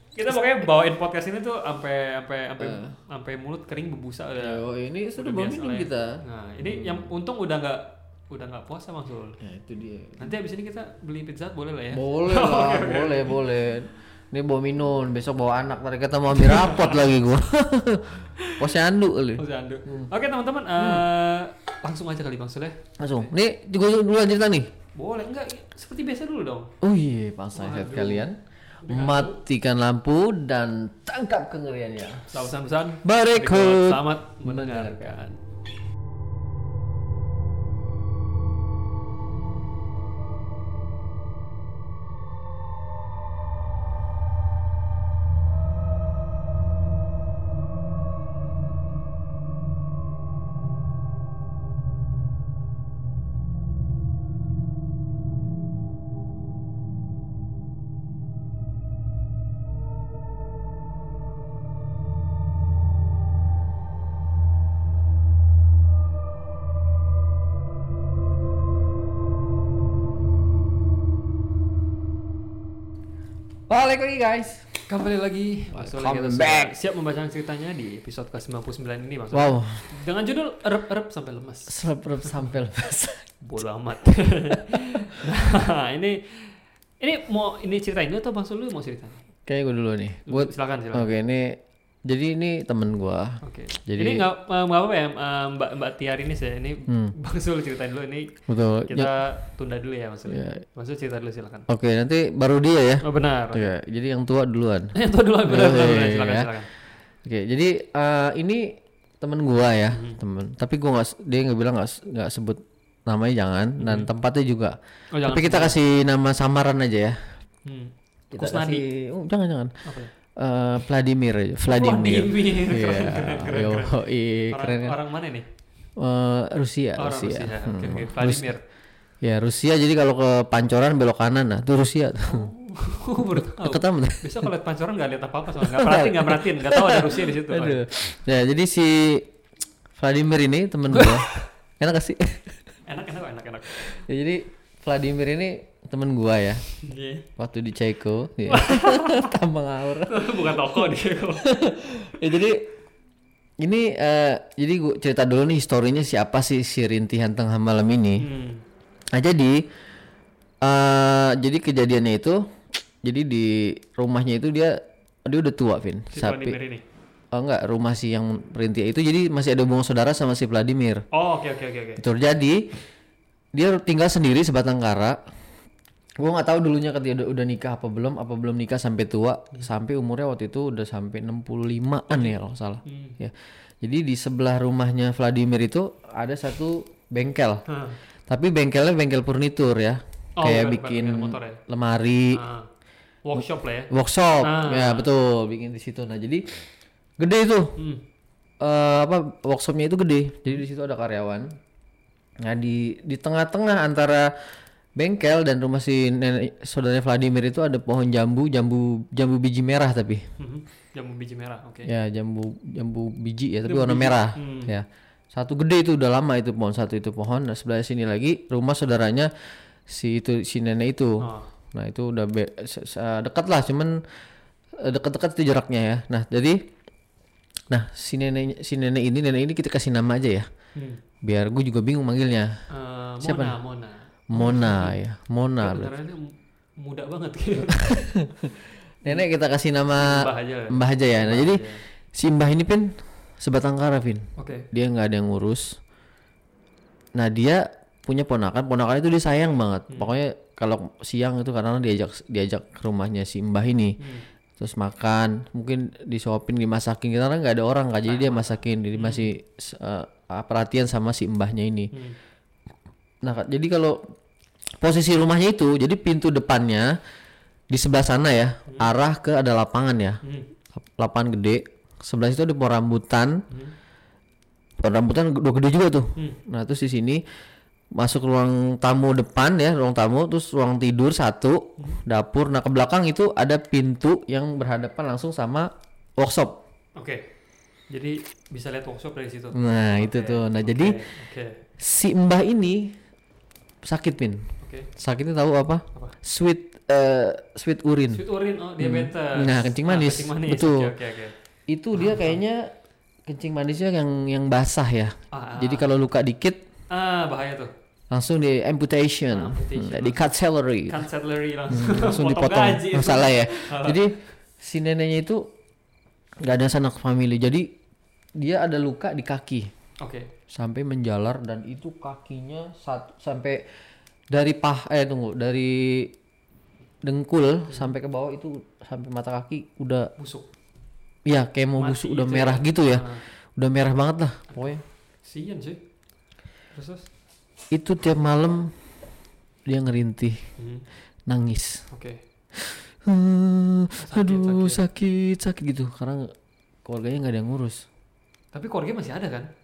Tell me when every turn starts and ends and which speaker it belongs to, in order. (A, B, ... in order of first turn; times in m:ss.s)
0:00.1-0:04.6 A
0:02.6-0:03.0 B
0:04.4-0:07.1 B
0:05.2-0:09.4 A
0:09.4-0:10.3 B
0:10.2-0:13.4 A
0:11.9-0:20.1 B
0:16.3-0:17.1 A
0:19.4-0:23.3 A
0:20.8-0:21.1 B
0:23.0-0:24.7 B
0:25.0-0:26.7 A
0:26.8-0:35.2 B
0:27.6-0:28.3 A
0:28.8-0:29.4 A
0:32.3-0:35.4 A
1:13.7-1:14.8 B
1:14.9-1:22.4 A
1:15.7-1:16.8 B
1:19.3-1:19.8 B
1:21.7-1:23.3 B
1:23.4-1:29.2 A
1:24.5-1:25.2 B
1:29.5-1:34.3 B
1:30.3-1:31.2 A
1:33.4-1:38.3 A
1:36.9-1:37.1 B
1:38.5-1:39.1 B
1:38.9-1:41.7 A
1:40.3-1:40.6 B
1:41.7-1:44.9 B
1:43.0-1:43.7 A
1:44.9-1:46.7 A
1:45.5-1:46.5 B
1:47.2-1:57.2 B
1:49.9-1:50.2 A
1:53.8-1:54.1 A
1:55.1-1:55.8 A
1:57.7-1:58.9 A
1:58.3-1:59.8 B
1:59.8-2:00.1 A
2:00.4-2:05.0 B
2:01.7-2:05.5 A
2:06.0-2:08.5 B
2:07.0-2:08.6 A
2:09.2-2:12.5 B
2:12.3-2:17.8 A
2:13.3-2:14.5 B
2:15.6-2:19.3 B
2:20.0-2:21.3 B
2:20.9-2:21.4 A
2:21.8-2:22.6 B
2:22.9-2:23.9 A
2:23.8-2:26.6 B
2:26.8-2:27.3 A
2:27.4-2:32.7 B
2:28.5-2:29.3 A
2:30.1-2:31.5 A
2:33.6-2:38.3 B
2:38.2-2:38.6 A
2:39.1-2:39.6 B
2:40.6-2:42.5 B
2:43.0-2:46.6 B
2:46.1-2:46.8 A
2:47.3-2:51.0 B
2:51.1-2:52.0 A
2:52.0-2:52.6 B
2:53.5-2:55.2 B
2:56.2-3:07.6 B
3:02.1-3:03.2 A
3:07.7-3:08.0 A
3:08.3-3:12.4 B
3:10.4-3:11.6 A
3:12.3-3:12.7 A
3:13.2-3:13.9 A
3:13.4-3:16.4 B
3:14.4-3:15.1 A
3:17.2-3:17.7 B
3:17.8-3:18.0 A
3:18.6-3:21.6 B
3:22.4-3:24.3 B
3:25.0-3:30.3 B
3:30.4-3:31.9 A
3:31.9-3:39.3 B
3:33.7-3:34.7 A
3:39.9-3:44.0 B
3:41.2-3:41.5 A
3:44.8-3:46.6 B
3:47.7-3:50.5 B
3:50.8-3:51.0 A
3:51.2-3:52.6 B
3:52.7-3:55.0 A
3:53.2-3:53.6 B
3:54.3-3:55.9 B
3:55.6-3:58.0 A
3:57.6-4:05.8 B
3:59.9-4:01.8 A
4:04.4-4:04.7 A
4:07.2-4:14.0 B
4:14.6-4:21.9 B
4:18.1-4:19.3 A
4:23.2-4:24.0 B
4:24.8-4:27.0 B
4:27.7-4:30.2 B
4:28.7-4:28.9 A
4:30.2-4:30.5 A
4:30.8-4:33.4 B
4:34.8-4:37.2 B
4:38.0-4:46.6 B
4:47.0-4:47.2 A
4:47.9-4:51.6 A
4:49.5-4:51.0 B
4:51.8-4:53.0 B
4:53.8-4:58.2 B
4:54.6-4:54.9 A
4:58.1-5:01.3 A
4:58.8-5:00.9 B
5:01.7-5:02.7 B
5:02.0-5:02.4 A
5:03.3-5:06.6 B
5:05.3-5:05.9 A
5:06.9-5:07.7 A
5:08.1-5:11.0 B
5:09.3-5:10.3 A
5:10.9-5:14.0 A
5:11.7-5:15.5 B
5:16.4-5:17.7 B
5:18.4-5:19.7 B
5:20.0-5:20.3 A
5:20.5-5:23.7 B
5:24.3-5:26.1 B
5:27.0-5:30.1 B
5:30.2-5:30.5 A
5:31.3-5:34.8 B
5:31.8-5:33.2 A
5:34.5-5:35.8 A
5:36.7-5:37.1 A
5:37.7-5:38.7 B
5:39.7-5:40.4 B
5:40.6-5:40.9 A
5:41.3-5:41.9 B
5:41.9-5:42.2 A
5:42.6-5:46.3 B
5:44.0-5:44.8 A
5:46.9-5:47.9 B
5:48.5-5:49.5 A